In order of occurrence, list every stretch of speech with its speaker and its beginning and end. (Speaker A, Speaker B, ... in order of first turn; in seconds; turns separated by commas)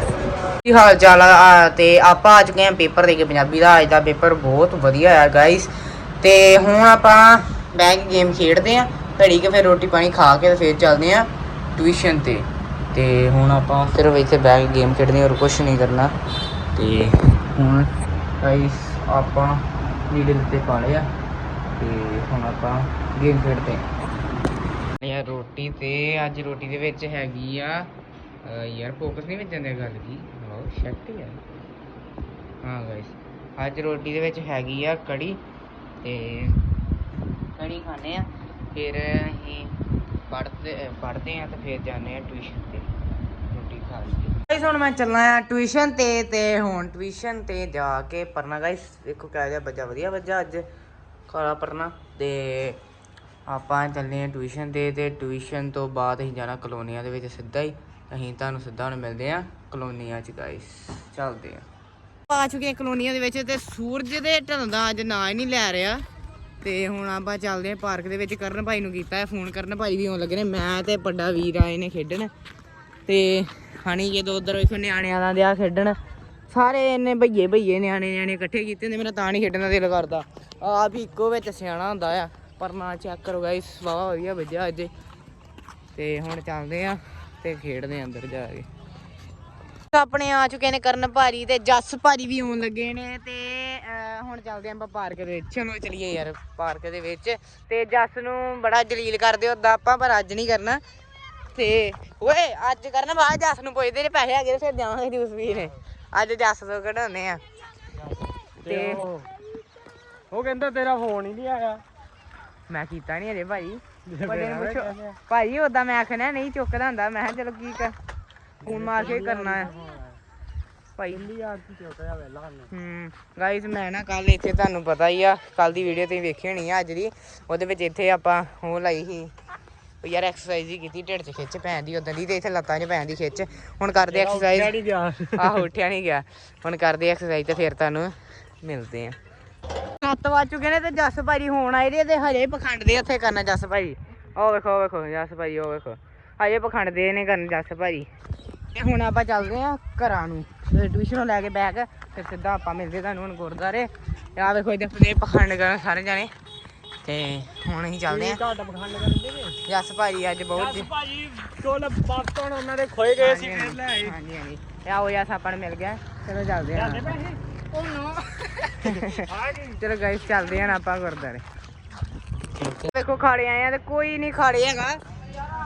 Speaker A: 0.6-16.1, Speaker A: 16.8-21.1, Speaker A: 21.8-23.9, Speaker A: 25.0-27.9, Speaker A: 28.4-31.4, Speaker A: 32.6-35.4, Speaker A: 36.0-36.6, Speaker A: 37.6-39.8, Speaker A: 40.3-42.9, Speaker A: 43.5-50.7, Speaker A: 51.3-52.8, Speaker A: 53.5-61.7, Speaker A: 62.3-66.0, Speaker A: 66.6-72.3, Speaker A: 73.1-76.0, Speaker A: 76.5-84.9, Speaker A: 85.9-88.7, Speaker A: 89.9-100.8, Speaker A: 101.5-107.4, Speaker A: 108.6-109.0, Speaker B: 108.7-109.3, Speaker B: 110.3-111.8, Speaker A: 112.7-118.0, Speaker B: 114.1-115.2, Speaker B: 118.6-120.2, Speaker A: 118.6-119.7, Speaker A: 121.0-121.3, Speaker B: 121.1-122.7, Speaker A: 122.7-129.3, Speaker A: 130.0-134.8, Speaker B: 134.1-135.6, Speaker A: 135.4-139.2, Speaker A: 140.0-148.1, Speaker A: 148.8-156.3, Speaker A: 157.1-158.4, Speaker B: 158.1-159.6, Speaker A: 159.7-160.9, Speaker B: 160.6-164.1, Speaker A: 163.2-167.2, Speaker B: 166.8-167.4, Speaker A: 167.7-171.4, Speaker B: 169.1-169.7, Speaker A: 172.6-175.0